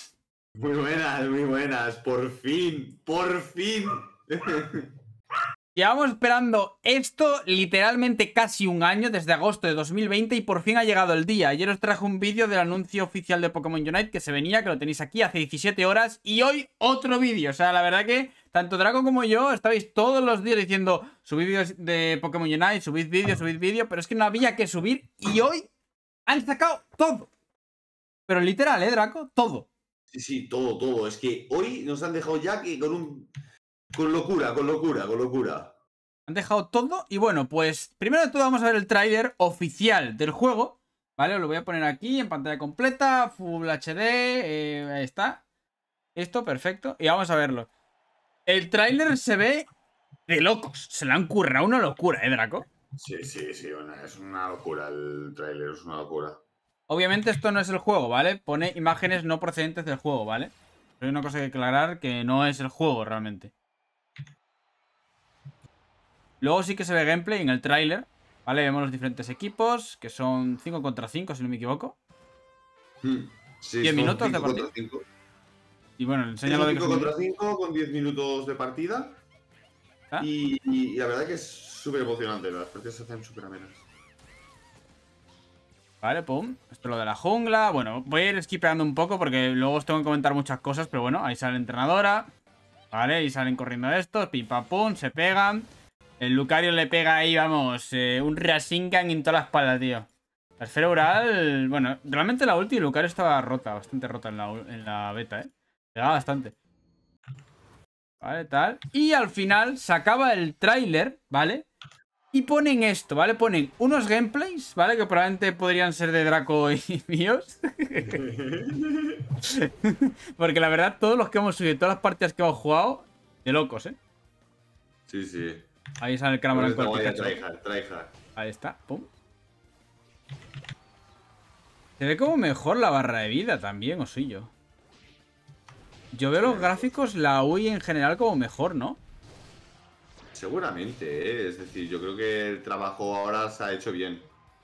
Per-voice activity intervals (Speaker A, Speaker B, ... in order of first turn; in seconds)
Speaker A: 0.6-4.9, 30.1-33.3, 33.9-35.7, 53.0-56.4, 73.0-75.0, 76.5-79.2, 80.2-83.8, 118.0-119.2, 125.1-125.6, 126.5-128.1, 136.3-136.9, 140.3-144.3
Speaker B: 5.7-25.7, 26.3-27.3, 28.3-29.7, 36.3-45.4, 46.1-47.7, 48.5-49.6, 50.3-52.6, 56.9-63.5, 66.4-72.0, 73.8-74.7, 76.0-77.1, 86.0-92.3, 92.9-95.7, 96.2-106.5, 108.2-111.7, 112.3-118.2, 119.4-123.9, 126.0-127.4, 128.3-129.1, 132.0-134.5, 136.1-139.0